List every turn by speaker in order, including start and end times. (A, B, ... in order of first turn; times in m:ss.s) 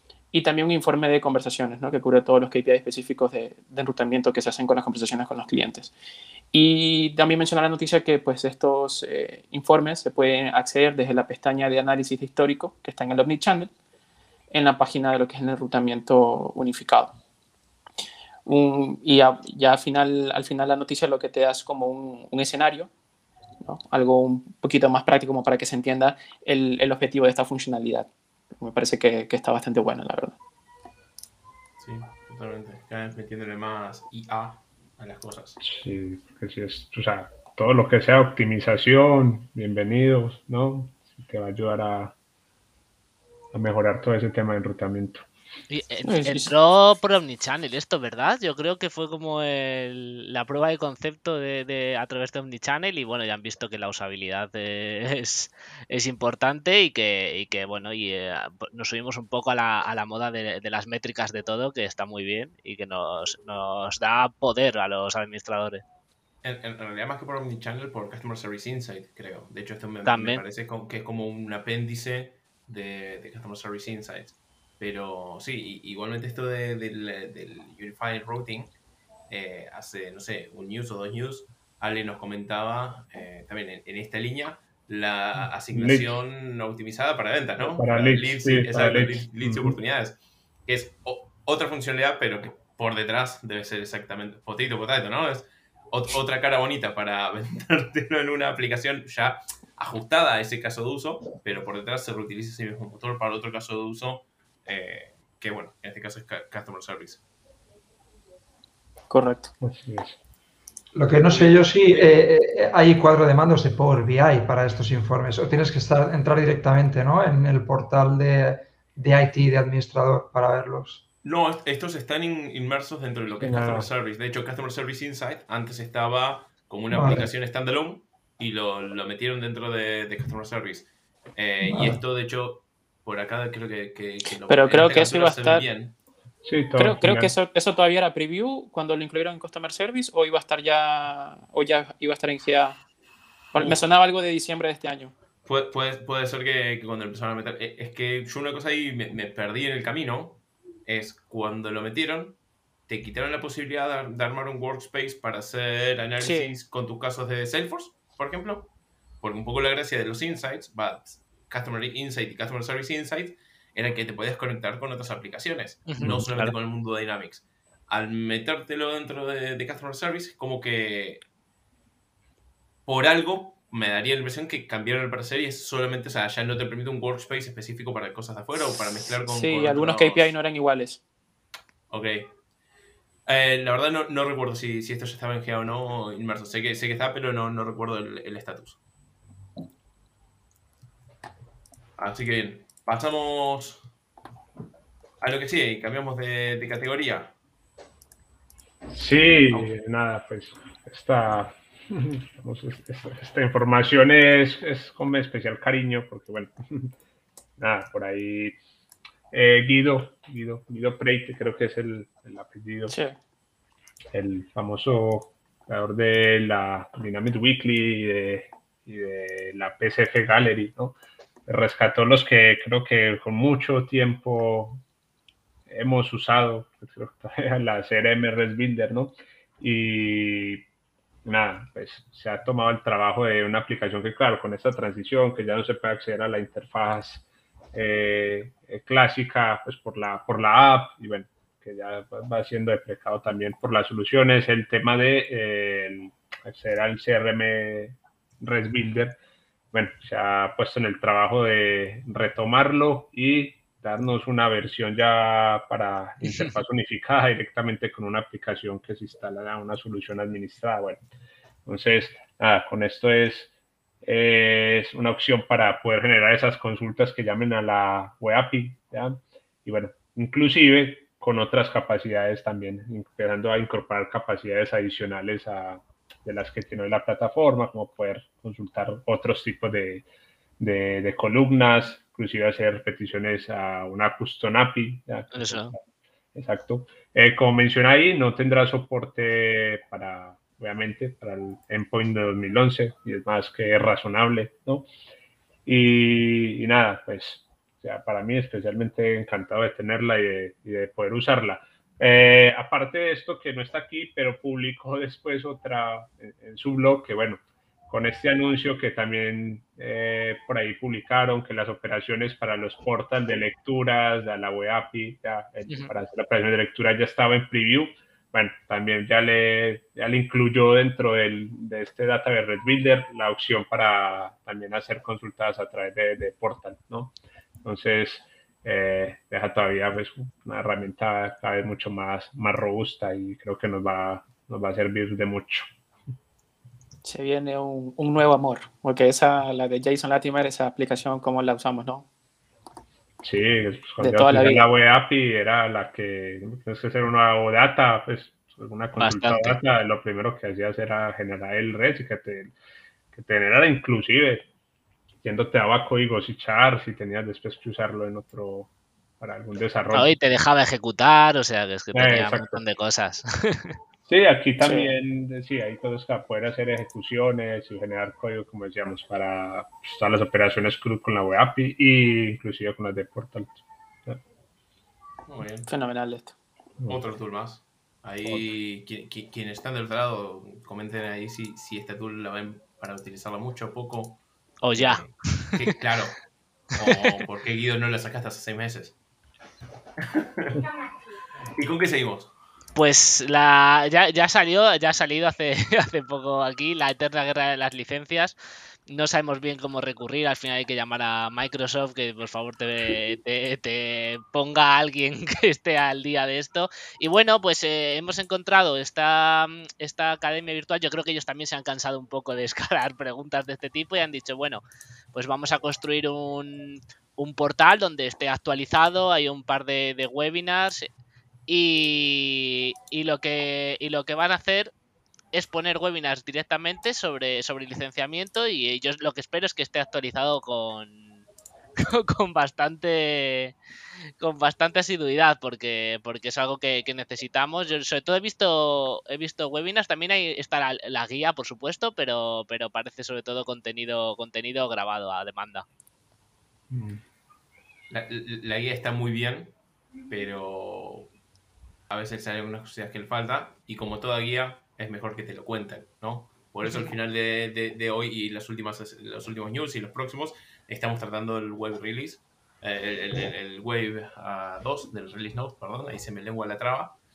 0:00.3-0:05.9 A
0:06.5-0:13.7 A
0:14.5-0:17.1 A
0:18.4-0:22.9 A
0:23.6-0:30.4 A
0:31.8-0:35.6 B
0:35.6-0:42.1 C
0:43.5-0:45.2 C
0:45.7-1:05.8 D
0:46.0-0:46.5 A
1:06.4-1:18.7 B
1:10.0-1:10.4 D
1:19.3-1:47.2 B
1:25.4-1:26.1 C
1:27.6-1:29.8 C
1:49.1-1:49.5 A
1:49.6-1:50.2 C
1:50.9-2:01.0 E
1:51.3-1:52.0 B
2:01.2-2:15.9 B
2:03.4-2:03.9 C
2:06.9-2:07.3 E
2:11.6-2:12.0 E
2:14.5-2:15.6 A
2:16.4-2:17.3 C
2:16.8-2:22.8 A
2:23.5-2:25.1 A
2:25.4-2:32.4 B
2:32.9-2:38.7 B
2:36.2-2:36.5 A
2:39.2-2:51.2 B
2:45.9-2:46.5 D
2:46.0-2:46.2 C
2:52.8-3:00.3 B
2:59.2-3:01.0 A
3:01.9-3:02.3 B
3:03.3-3:08.8 B
3:12.0-3:13.9 B
3:15.2-3:17.3 B
3:18.9-3:26.9 C
3:27.6-3:28.6 C
3:29.3-3:32.9 C
3:32.9-3:33.2 A
3:34.1-3:44.8 C
3:45.7-3:50.6 C
3:51.2-4:09.2 C
4:09.7-4:21.0 C
4:16.2-4:16.5 D
4:21.6-4:23.5 C
4:24.0-4:40.0 C
4:40.6-4:45.8 C
4:45.3-4:45.7 D
4:46.3-4:54.9 C
4:55.6-5:35.7 C
5:15.7-5:15.9 A
5:37.0-5:42.1 A
5:43.2-5:52.5 C
5:44.0-5:44.7 A
5:49.0-5:49.6 D
5:53.1-5:54.5 C
5:55.2-6:00.1 C
5:59.9-6:03.7 D
6:01.9-6:02.6 C
6:04.1-6:14.2 C
6:04.6-6:04.9 A
6:15.3-6:15.7 B
6:15.7-6:16.3 A
6:16.9-6:24.2 B
6:24.6-6:25.6 D
6:24.7-6:26.2 B
6:26.7-6:28.9 B
6:30.1-6:30.6 B
6:31.5-6:32.3 B
6:32.7-6:38.4 D
6:38.9-7:00.9 D
7:01.5-7:04.7 D
7:05.3-7:11.1 D
7:11.8-7:13.5 D
7:14.2-7:25.6 D
7:26.7-7:27.0 C
7:27.9-7:29.5 B
7:30.1-7:31.1 B
7:31.9-7:47.0 B